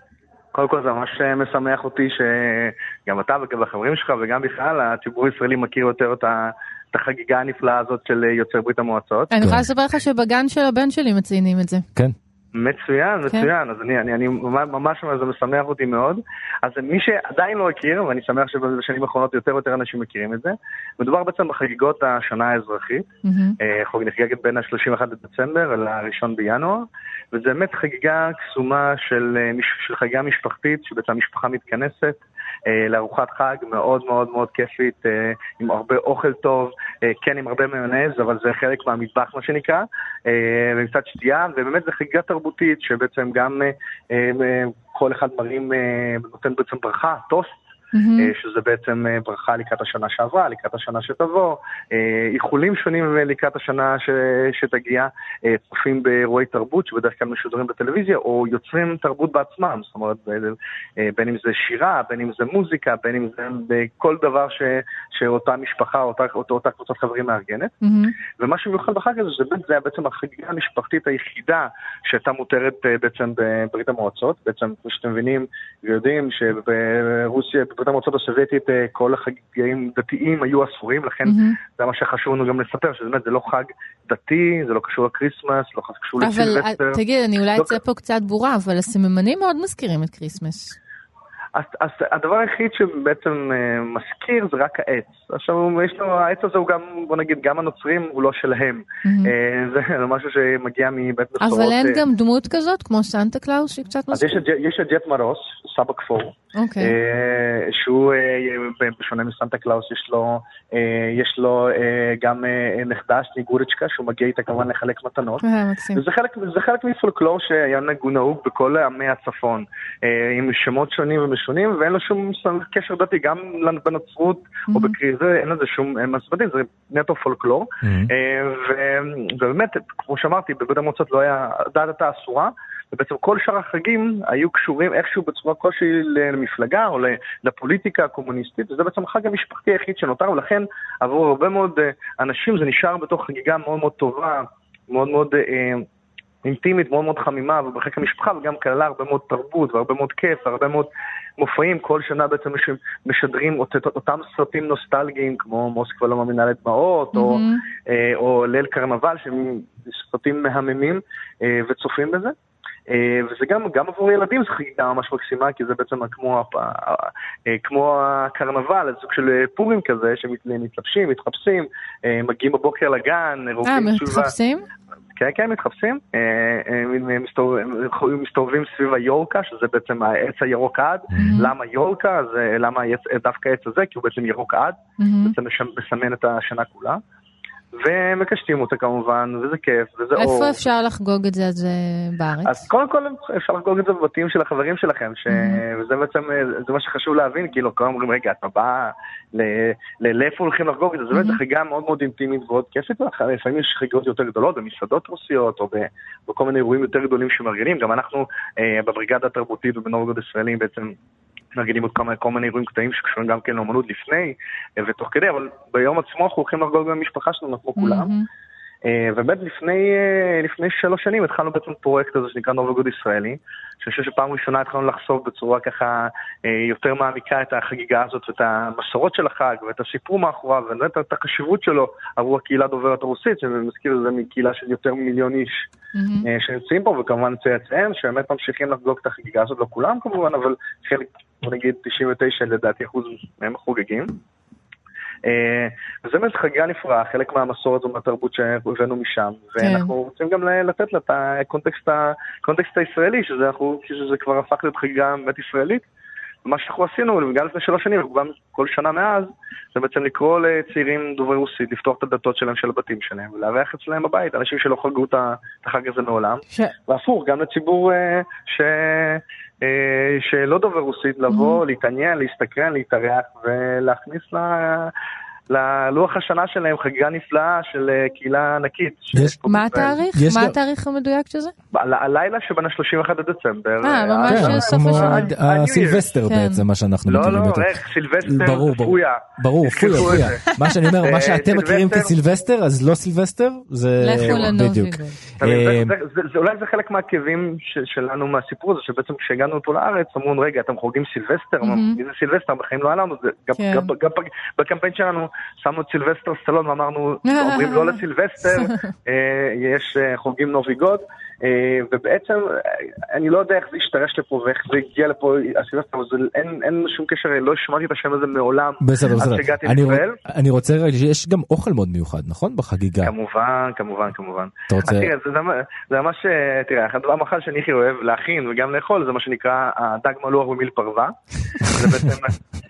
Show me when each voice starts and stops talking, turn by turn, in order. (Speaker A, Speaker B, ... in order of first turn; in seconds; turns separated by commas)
Speaker A: 0.5-9.3, Speaker B: 9.3-11.8, Speaker C: 9.4-9.6, Speaker A: 12.5-23.1, Speaker B: 23.2-23.6, Speaker A: 23.6-47.6, Speaker B: 47.9-48.3, Speaker A: 48.2-67.7, Speaker B: 67.8-68.2, Speaker A: 68.3-87.0, Speaker B: 81.2-81.6, Speaker B: 86.2-90.8, Speaker A: 91.5-102.0, Speaker B: 99.0-99.3, Speaker B: 101.4-104.4, Speaker A: 104.1-115.4, Speaker B: 106.5-106.9, Speaker B: 115.4-116.0, Speaker A: 115.9-145.8, Speaker B: 124.7-125.0, Speaker C: 127.8-128.1, Speaker A: 146.4-162.3, Speaker B: 157.1-157.6, Speaker A: 162.9-174.3, Speaker B: 173.6-174.7, Speaker A: 175.2-187.0, Speaker C: 181.1-181.4, Speaker B: 181.2-181.5, Speaker B: 185.0-185.3, Speaker A: 187.8-190.6, Speaker B: 190.2-192.6, Speaker A: 192.4-210.9, Speaker B: 195.3-195.6, Speaker B: 201.1-201.4, Speaker A: 211.5-218.1, Speaker B: 217.8-218.3, Speaker A: 218.8-235.7, Speaker B: 235.9-236.3, Speaker A: 236.2-244.2, Speaker A: 245.2-255.8, Speaker B: 249.6-249.9, Speaker A: 256.4-274.9, Speaker B: 271.3-271.6, Speaker A: 275.5-279.9, Speaker B: 279.4-281.5, Speaker C: 280.1-280.6, Speaker A: 281.7-286.1, Speaker B: 283.8-285.3, Speaker C: 284.2-295.9, Speaker B: 286.3-286.6, Speaker A: 287.1-290.4, Speaker B: 290.6-290.9, Speaker A: 291.0-292.1, Speaker B: 294.0-295.2, Speaker A: 294.2-294.5, Speaker A: 295.4-320.2, Speaker B: 301.6-302.0, Speaker B: 303.6-303.9, Speaker B: 307.2-308.9, Speaker C: 318.8-323.1, Speaker A: 323.0-332.3, Speaker C: 324.7-325.1